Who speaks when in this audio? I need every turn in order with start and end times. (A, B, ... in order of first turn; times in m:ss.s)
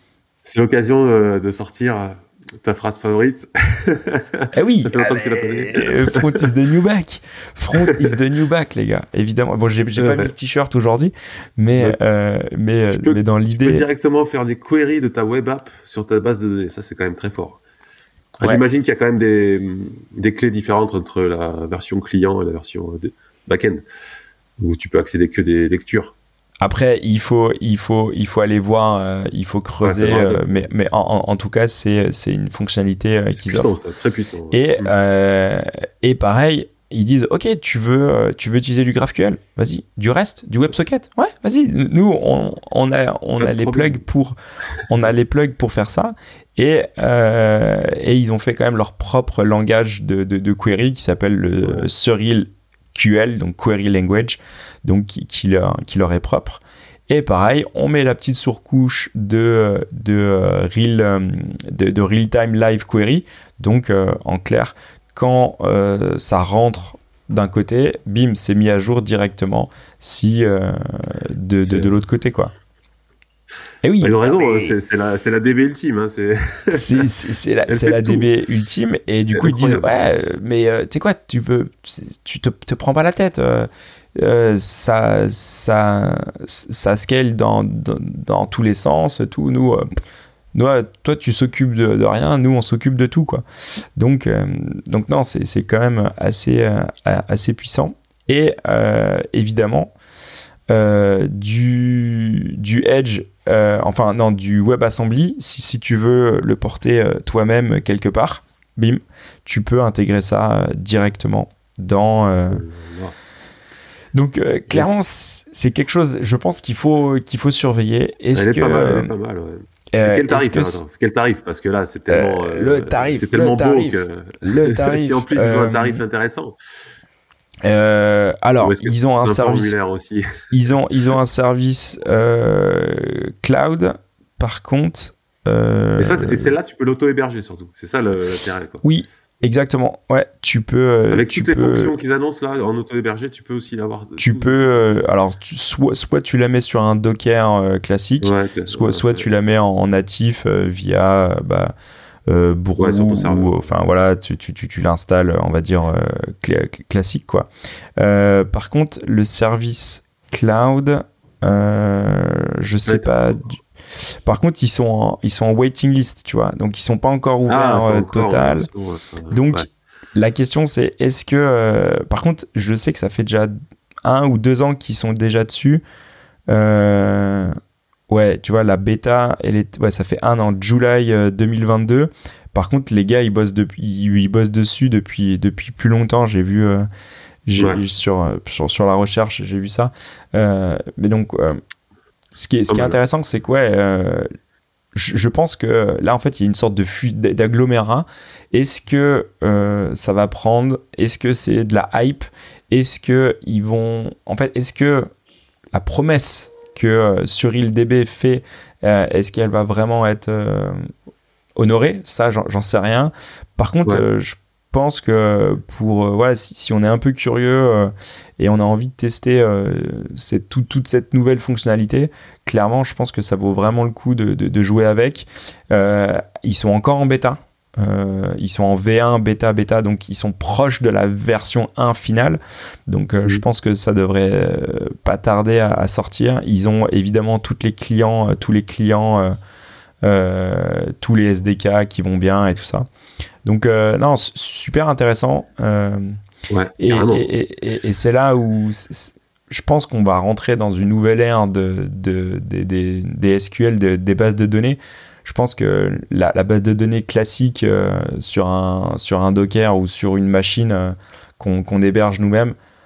0:00.4-0:06.5 A
0:04.5-0:13.8 B
0:07.8-0:08.1 A
0:10.0-0:10.3 A
0:12.9-0:17.6 A
0:18.4-0:23.8 A
0:24.6-0:26.1 A
0:26.6-0:33.7 B
0:29.8-0:30.6 A
0:33.3-0:34.9 A
0:34.5-0:44.4 B
0:43.4-0:44.0 A
0:44.9-1:12.5 B
0:51.6-0:51.9 A
1:11.6-1:12.0 A
1:13.8-1:14.7 B
1:14.0-1:17.0 A
1:16.7-1:29.9 B
1:17.6-1:18.3 A
1:19.3-1:20.0 A
1:30.5-1:33.4 B
1:34.0-1:39.9 B
1:40.7-1:52.6 B
1:52.5-1:53.1 A
1:54.1-1:59.1 B
1:58.3-2:06.5 A
1:59.9-2:00.8 B
2:02.1-2:06.0 B
2:07.6-2:09.7 B
2:08.6-2:10.3 A
2:10.5-2:16.5 B
2:16.0-2:18.8 A
2:18.8-2:22.0 B
2:21.1-2:24.6 A
2:24.2-2:31.7 B
2:28.2-2:29.2 A
2:32.3-2:43.6 B
2:32.8-2:33.5 A
2:42.8-2:43.4 A
2:44.1-2:48.7 B
2:47.5-2:49.6 A
2:49.3-2:53.5 B
2:54.0-2:55.8 B
2:56.5-2:57.6 B
2:58.1-3:06.9 B
3:07.5-3:11.6 B
3:12.3-3:14.3 B
3:12.7-3:13.0 A
3:14.9-3:25.1 B
3:25.7-3:30.9 B
3:31.6-3:59.4 B
4:00.0-4:02.9 B
4:03.4-4:06.2 B
4:06.5-4:07.3 A
4:06.8-4:22.5 B